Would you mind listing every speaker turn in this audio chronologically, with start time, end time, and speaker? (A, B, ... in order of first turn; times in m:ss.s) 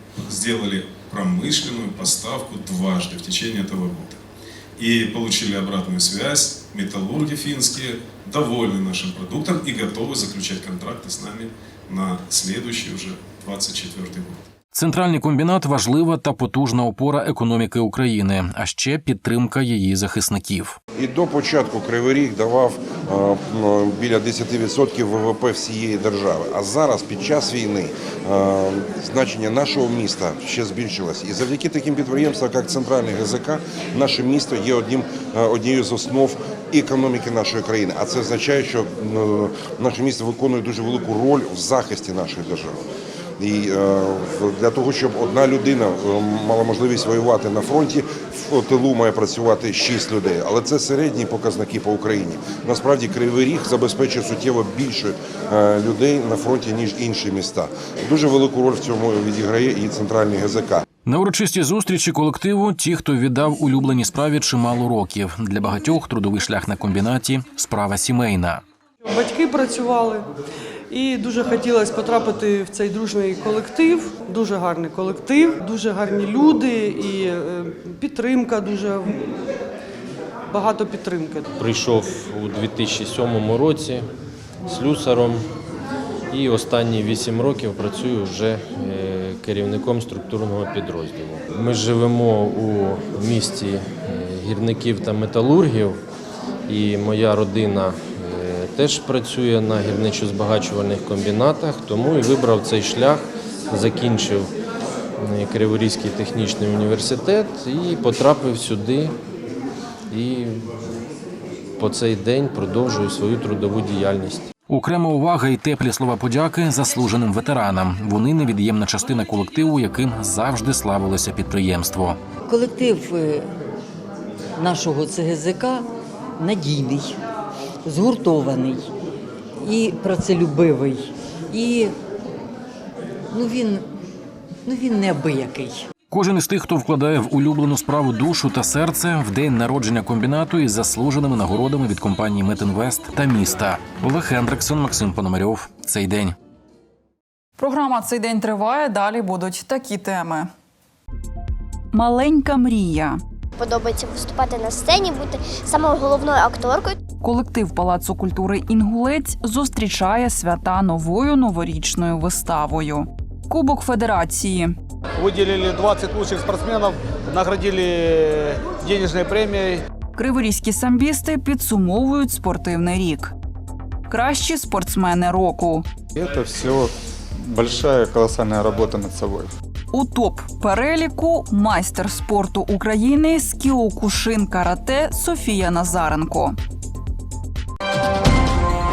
0:00.1-0:04.2 A
0:04.8-0:14.4 A
0:14.7-0:20.8 B
0:21.0-0:42.8 C
0:43.4-1:00.8 C
1:01.0-1:08.6 B
1:09.0-1:10.3 D
1:10.9-1:19.2 D
1:20.5-1:21.4 D
1:21.6-1:24.1 E
1:24.7-1:25.5 E
1:26.3-1:36.0 E
1:36.7-1:44.5 E
1:45.2-1:49.2 E
1:50.1-1:50.9 E
1:51.8-1:54.5 E
1:54.7-2:02.2 B
2:02.4-2:03.5 F
2:04.6-2:05.8 F
2:06.4-2:07.2 F
2:07.8-2:08.9 F
2:09.6-2:11.9 F
2:13.3-2:13.9 F
2:14.6-2:15.9 F
2:16.1-2:26.4 B
2:27.6-2:30.5 G
2:31.9-2:33.2 G
2:33.6-2:37.0 H
2:37.2-2:44.8 G
2:45.2-2:49.8 I
2:50.2-2:53.3 G
2:54.1-2:55.8 G
2:56.1-2:59.5 J
2:59.9-3:06.6 G